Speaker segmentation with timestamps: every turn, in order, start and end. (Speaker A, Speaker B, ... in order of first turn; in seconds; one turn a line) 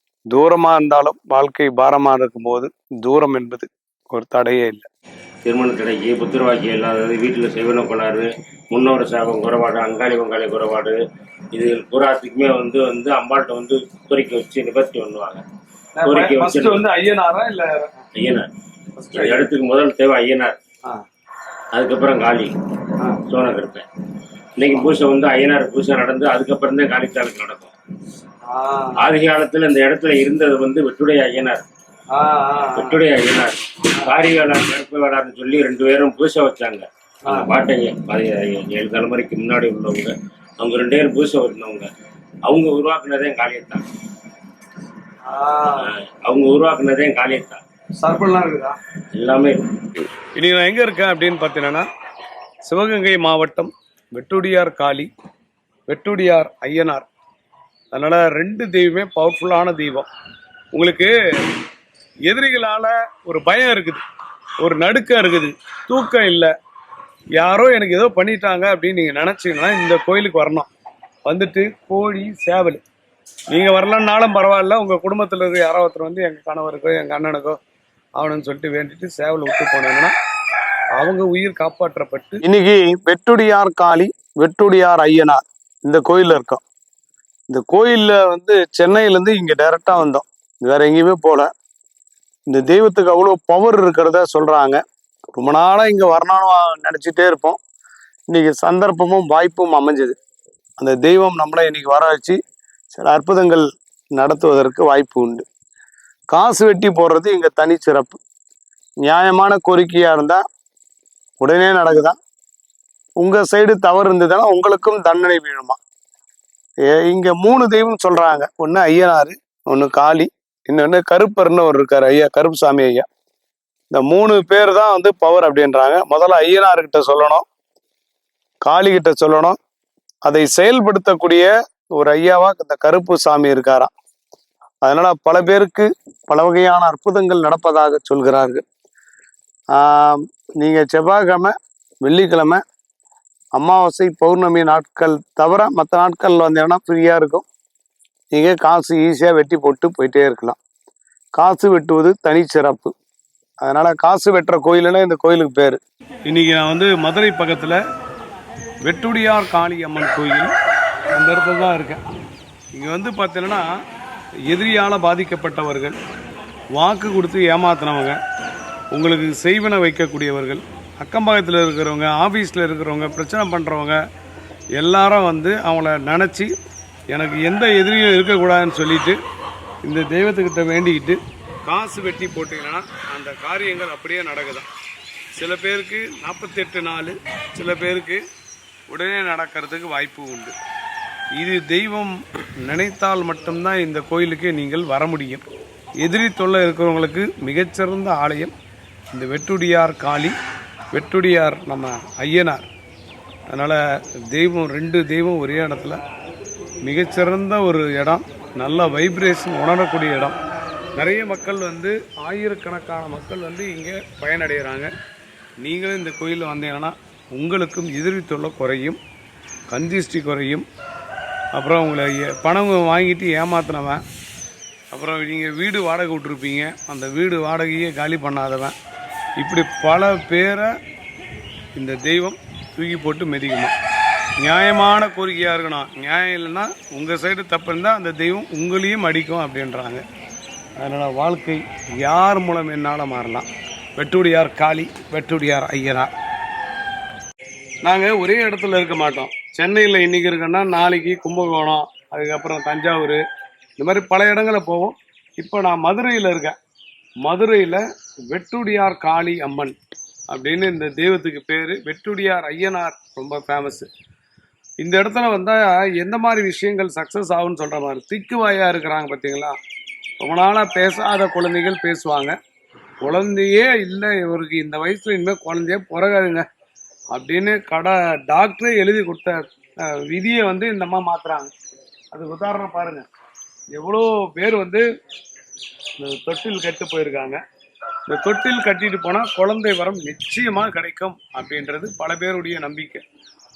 Speaker A: 0.3-4.8
Speaker B: 5.4-11.0
Speaker B: 11.5-15.4
Speaker A: 15.9-18.0
Speaker B: 16.0-16.9
Speaker B: 18.2-18.5
Speaker A: 18.9-19.4
Speaker B: 19.1-20.6
Speaker B: 21.7-22.5
Speaker B: 23.2-23.8
Speaker B: 24.6-27.7
Speaker A: 28.4-29.0
Speaker B: 28.9-31.6
Speaker A: 32.1-33.0
Speaker B: 32.7-41.9
Speaker B: 42.5-43.8
Speaker A: 45.2-45.9
Speaker B: 45.8-47.6
Speaker A: 48.0-48.8
Speaker B: 49.1-50.0
Speaker A: 50.3-51.9
Speaker A: 52.6-55.1
Speaker A: 55.9-57.1
Speaker A: 57.9-60.1
Speaker A: 60.7-61.1
Speaker A: 62.2-64.0
Speaker A: 64.6-66.5
Speaker A: 67.3-70.7
Speaker A: 71.2-72.8
Speaker A: 73.5-77.6
Speaker A: 78.2-80.1
Speaker A: 81.0-86.6
Speaker A: 87.5-91.5
Speaker A: 92.5-94.8
Speaker A: 95.4-97.6
Speaker A: 98.3-100.2
Speaker A: 100.8-102.4
Speaker A: 102.9-103.6
Speaker A: 104.2-105.4
Speaker A: 106.3-108.2
Speaker A: 109.0-110.4
Speaker A: 111.4-112.2
Speaker A: 113.2-115.8
Speaker A: 116.9-123.0
Speaker A: 123.9-127.4
Speaker A: 128.6-129.6
Speaker A: 130.2-133.9
Speaker A: 134.8-138.6
Speaker A: 139.7-142.6
Speaker A: 143.6-147.4
Speaker A: 148.3-150.6
Speaker A: 151.4-152.9
Speaker A: 153.6-157.8
Speaker A: 158.8-160.5
Speaker A: 161.1-162.0
Speaker A: 162.7-163.7
Speaker A: 164.5-166.0
Speaker A: 166.7-168.2
Speaker A: 168.9-174.0
Speaker A: 174.8-176.5
Speaker A: 177.1-179.2
Speaker A: 179.8-184.7
Speaker A: 185.3-188.2
Speaker A: 188.9-190.5
Speaker A: 191.3-195.4
Speaker A: 196.0-198.5
Speaker A: 199.1-200.3
Speaker A: 200.9-202.6
Speaker A: 203.5-203.8
Speaker A: 204.3-206.0
Speaker A: 206.8-210.3
Speaker A: 210.9-214.9
Speaker A: 215.6-219.0
Speaker A: 219.7-220.6
Speaker A: 221.5-224.0
Speaker A: 224.9-228.7
Speaker A: 229.4-230.7
Speaker A: 231.8-233.7
Speaker A: 234.4-240.0
Speaker A: 240.8-246.1
Speaker A: 247.8-253.2
Speaker A: 253.8-256.6
Speaker A: 257.2-259.8
Speaker A: 260.3-263.9
Speaker A: 264.8-269.6
Speaker A: 270.2-272.4
Speaker A: 273.0-276.4
Speaker A: 277.1-281.5
Speaker A: 282.1-283.1
Speaker A: 283.7-284.8
Speaker A: 286.0-287.4
Speaker A: 288.1-293.0